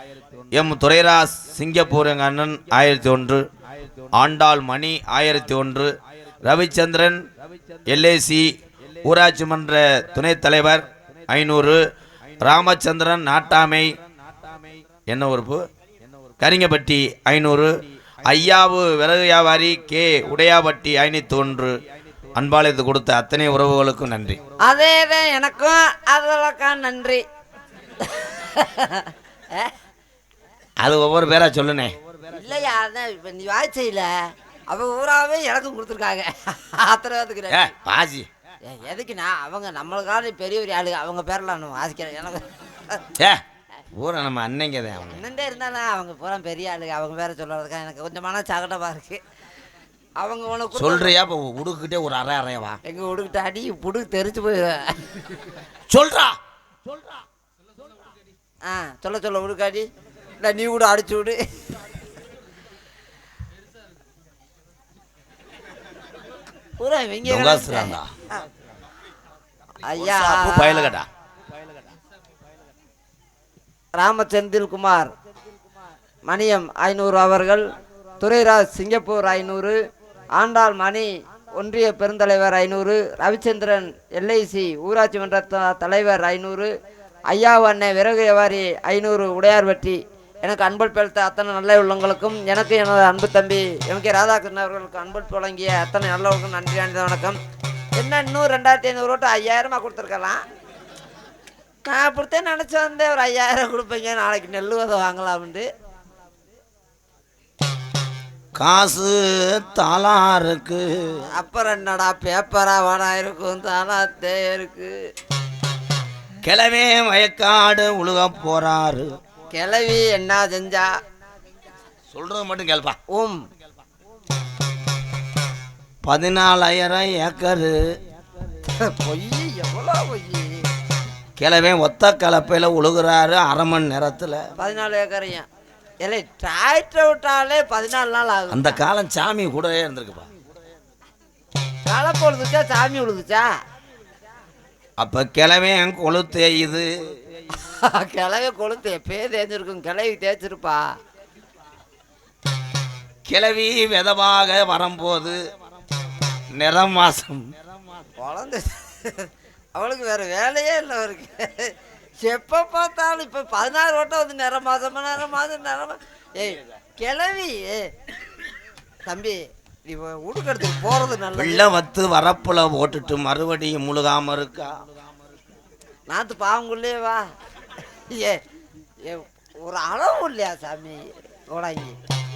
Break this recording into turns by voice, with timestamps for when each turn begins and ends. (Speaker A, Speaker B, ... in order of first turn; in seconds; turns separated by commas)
Speaker A: 0.5-3.4, Speaker A: 4.1-5.9, Speaker A: 6.4-7.2, Speaker A: 7.9-8.5, Speaker A: 9.1-11.8, Speaker A: 12.4-13.9, Speaker A: 15.1-15.6, Speaker A: 16.4-17.7, Speaker A: 18.3-21.8, Speaker A: 22.4-24.4, Speaker B: 24.6-27.2, Speaker B: 28.0-29.7, Speaker A: 30.8-31.9, Speaker B: 32.3-34.1, Speaker B: 34.7-37.7, Speaker A: 37.5-38.3, Speaker B: 38.6-43.0, Speaker A: 43.2-43.4, Speaker A: 43.9-45.2, Speaker B: 45.1-49.2, Speaker B: 50.2-51.1, Speaker A: 50.7-52.8, Speaker B: 52.8-55.4, Speaker A: 55.9-56.4, Speaker B: 58.6-59.9, Speaker B: 60.4-62.0, Speaker B: 66.8-68.0, Speaker A: 67.3-68.1, Speaker B: 69.8-70.9, Speaker A: 70.0-71.1, Speaker B: 73.9-75.1, Speaker B: 76.2-77.6, Speaker B: 78.2-79.8, Speaker B: 80.3-86.7, Speaker B: 87.3-97.4, Speaker B: 98.0-100.4, Speaker B: 101.8-105.7, Speaker A: 108.6-111.2, Speaker B: 111.3-114.9, Speaker A: 116.4-119.1, Speaker B: 119.5-120.9, Speaker A: 122.1-123.0, Speaker B: 123.1-123.4, Speaker A: 126.0-127.8, Speaker B: 128.7-130.7, Speaker A: 131.4-134.4, Speaker B: 134.6-135.5, Speaker B: 136.0-138.8, Speaker A: 138.5-140.3, Speaker B: 141.9-143.5, Speaker A: 145.0-146.9, Speaker B: 147.6-150.8, Speaker A: 153.3-155.4, Speaker A: 156.5-157.5, Speaker B: 158.2-167.9, Speaker B: 169.1-171.7, Speaker A: 171.4-174.7, Speaker B: 176.1-177.2, Speaker B: 177.8-178.4, Speaker B: 179.0-182.0